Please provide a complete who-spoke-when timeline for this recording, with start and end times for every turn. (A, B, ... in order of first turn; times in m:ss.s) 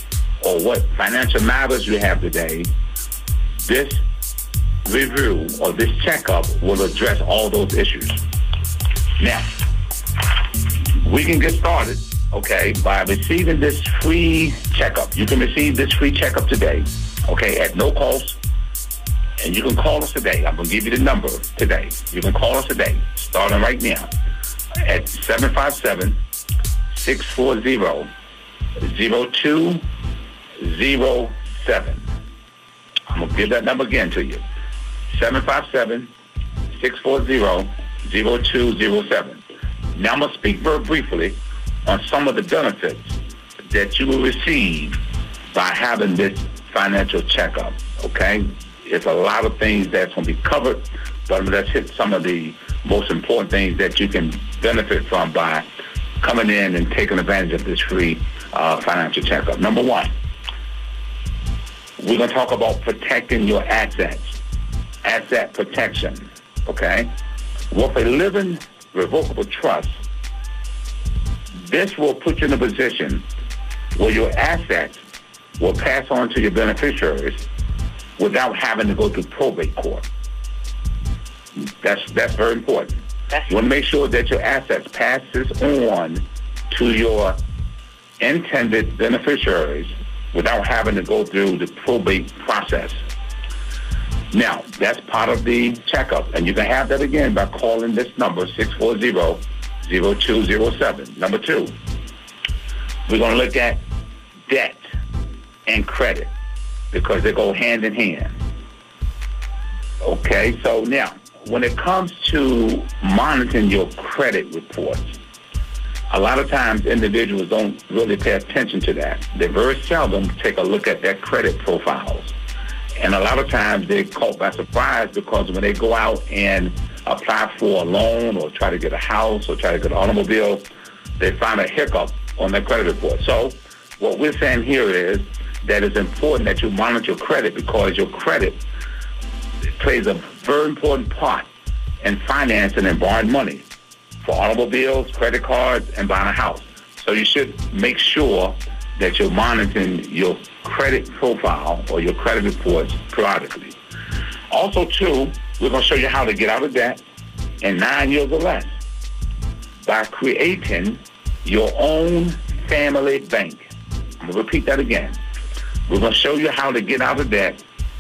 0:00.4-0:02.7 A
0:03.6-0:04.0 A
0:04.9-0:08.2 A
0:09.2-0:09.4 A
0:11.0-0:18.4 A
0:19.4-0:24.1 A
0:24.8-0:26.2 A
0:26.9-0:28.1 A
0:28.8-0:29.8 A
0:30.6-0:32.1 A
0:33.1-0:34.4 A
0:35.1-0:36.1 A
0:36.7-0:39.4 A
0:40.0-0:43.2 A
0:43.7-0:45.0 A
0:45.5-0:55.7 A
0:56.2-1:00.1 A
1:02.0-1:04.4 A
1:05.0-1:07.1 A
1:07.7-1:10.0 A
1:11.6-1:13.3 A
1:14.0-1:15.0 A
1:15.6-1:17.4 A
1:18.2-1:20.0 A
1:21.8-1:27.4 A
1:28.2-1:33.0 A
1:34.3-1:41.8 A
1:43.1-1:43.8 A
1:44.5-1:44.8 A
1:45.7-1:46.3 A
1:46.9-1:48.4 A
1:50.0-1:55.2 A
1:56.1-2:02.3 A
2:03.0-2:18.6 A
2:19.8-2:21.5 A
2:22.0-2:23.7 A
2:24.2-2:33.8 A
2:34.5-2:37.0 A
2:37.6-2:38.7 A
2:39.8-2:43.7 A
2:44.2-2:45.2 A
2:45.9-2:47.6 A